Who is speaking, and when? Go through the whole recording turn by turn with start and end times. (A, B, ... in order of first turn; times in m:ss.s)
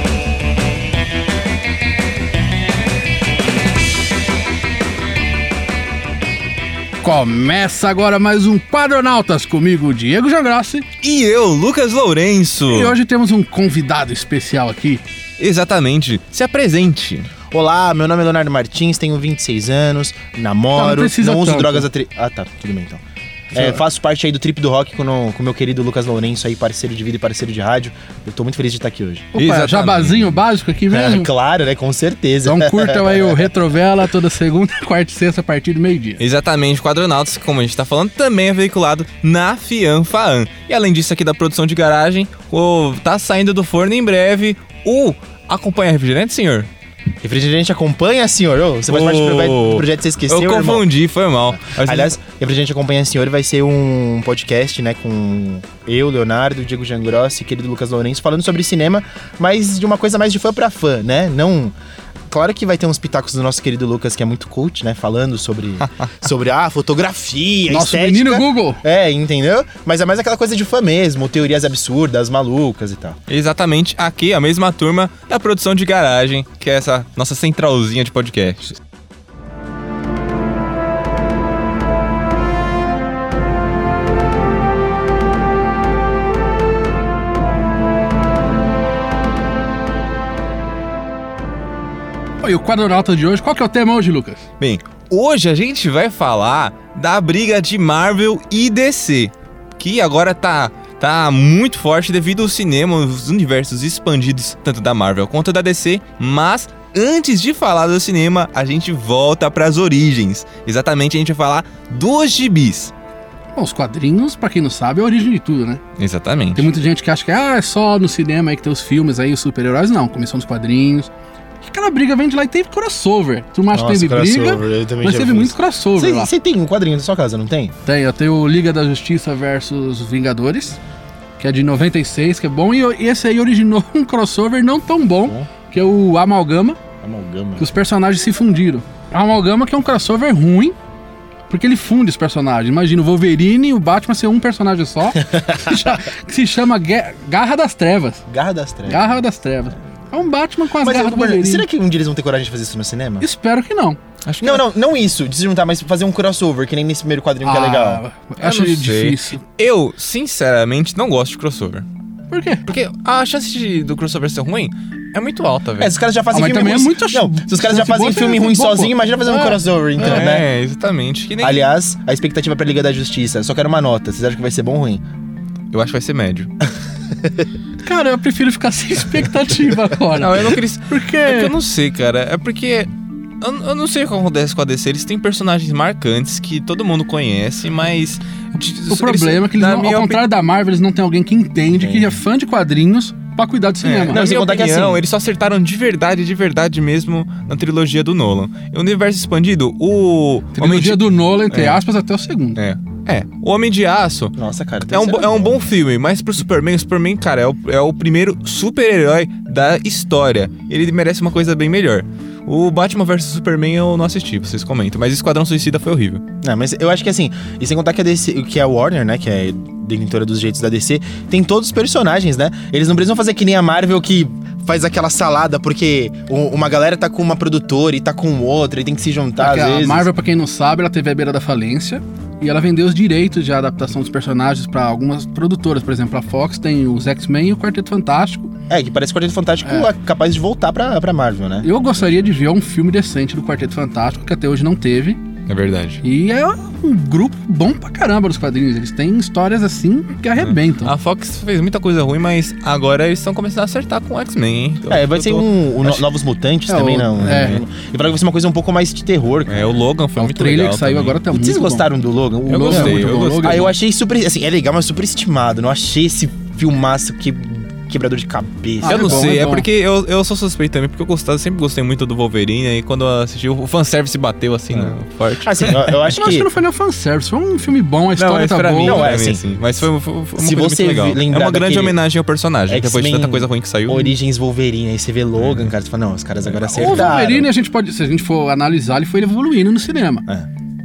0:07.0-0:10.8 A
0:11.0-0:12.9 B
0:12.7-0:15.0 A
0:15.4-0:17.3 B
0:17.5-0:23.0 C
0:20.7-0:21.8 A
0:23.5-0:29.3 C
0:29.3-0:31.3 A
0:29.4-0:30.4 B
0:30.9-0:33.5 C
0:32.4-0:36.2 A
0:36.2-0:46.7 B
0:47.2-0:50.8 C
0:48.9-0:52.1 B
0:51.6-1:01.7 C
1:02.3-1:13.2 C
1:07.7-1:08.8 A
1:13.3-1:18.8 B
1:32.4-1:34.4 A
1:34.6-1:52.9 B
1:53.6-1:55.8 A
1:56.0-1:56.7 B
1:56.6-2:01.1 A
2:01.6-2:06.3 A
2:03.7-2:07.7 C
2:07.8-2:10.8 A
2:11.4-2:16.8 A
2:17.0-2:17.7 C
2:17.6-2:20.7 A
2:21.5-2:28.2 A
2:25.2-2:26.0 C
2:28.3-2:29.1 C
2:28.8-2:31.6 A
2:30.8-2:33.3 C
2:33.2-2:34.0 A
2:34.2-2:34.7 B
2:34.4-2:38.0 C
2:37.4-2:39.4 A
2:38.4-2:41.9 B
2:42.3-2:42.6 A
2:42.6-2:45.9 B
2:45.8-2:50.4 C
2:46.3-2:50.2 A
2:50.0-2:51.6 B
2:51.4-2:55.0 C
2:55.7-2:56.5 B
2:57.8-3:01.5 A
3:00.1-3:02.9 B
3:03.4-3:10.2 B
3:08.9-3:14.2 A
3:11.7-3:12.1 C
3:13.8-3:21.8 B
3:14.1-3:15.0 C
3:20.5-3:22.6 A
3:22.6-3:24.3 B
3:24.3-3:25.6 C
3:24.9-3:36.2 B
3:36.4-3:50.1 C
3:49.4-3:58.5 A
3:58.7-4:02.1 C
4:01.6-4:05.2 A
4:05.4-4:06.0 B
4:06.0-4:10.9 A
4:10.4-4:16.0 B
4:14.9-4:19.7 C
4:16.7-4:17.6 A
4:17.2-4:17.6 B
4:19.5-4:21.2 B
4:20.2-4:21.9 A
4:21.3-4:29.2 C
4:22.5-4:23.7 B
4:22.5-4:23.7 A
4:28.8-4:29.6 A
4:28.8-4:35.8 B
4:34.7-4:36.5 C
4:36.0-4:39.1 A
4:38.2-4:44.1 B
4:38.8-4:39.4 C
4:40.4-4:42.0 C
4:42.7-4:47.5 C
4:45.4-4:45.7 B
4:46.7-4:50.2 A
4:46.8-4:47.1 B